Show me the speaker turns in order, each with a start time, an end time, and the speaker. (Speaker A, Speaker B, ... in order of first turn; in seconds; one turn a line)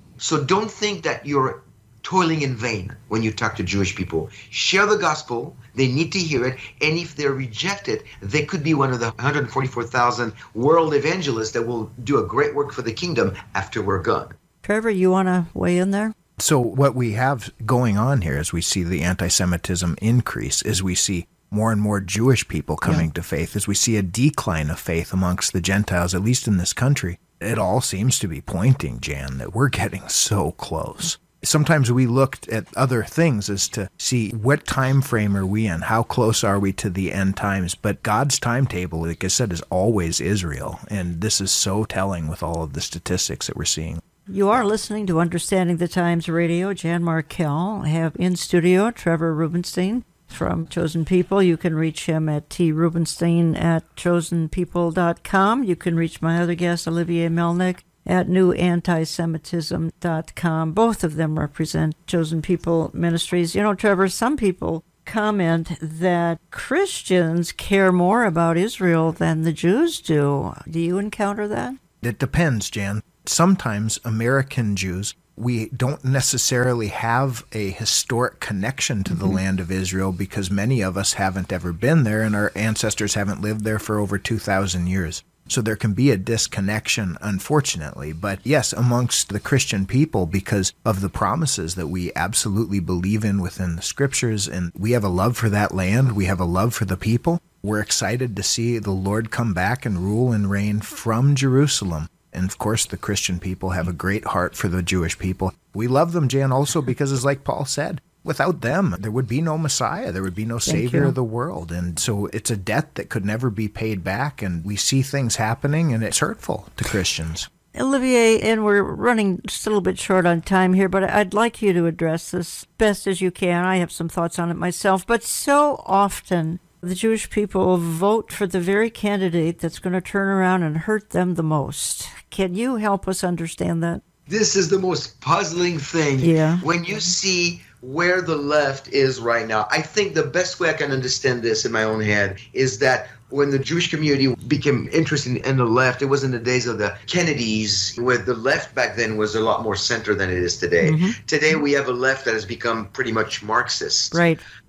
Speaker A: 0.2-14.3
Speaker B: 14.6-16.1
Speaker C: 16.4-44.0
Speaker B: 22.8-23.1
Speaker B: 44.3-71.8
Speaker C: 72.0-117.5
Speaker B: 79.1-79.4
Speaker B: 110.7-111.1
Speaker B: 117.7-134.0
Speaker A: 134.3-154.2
Speaker B: 136.2-136.6
Speaker B: 150.8-151.2
Speaker B: 154.1-154.4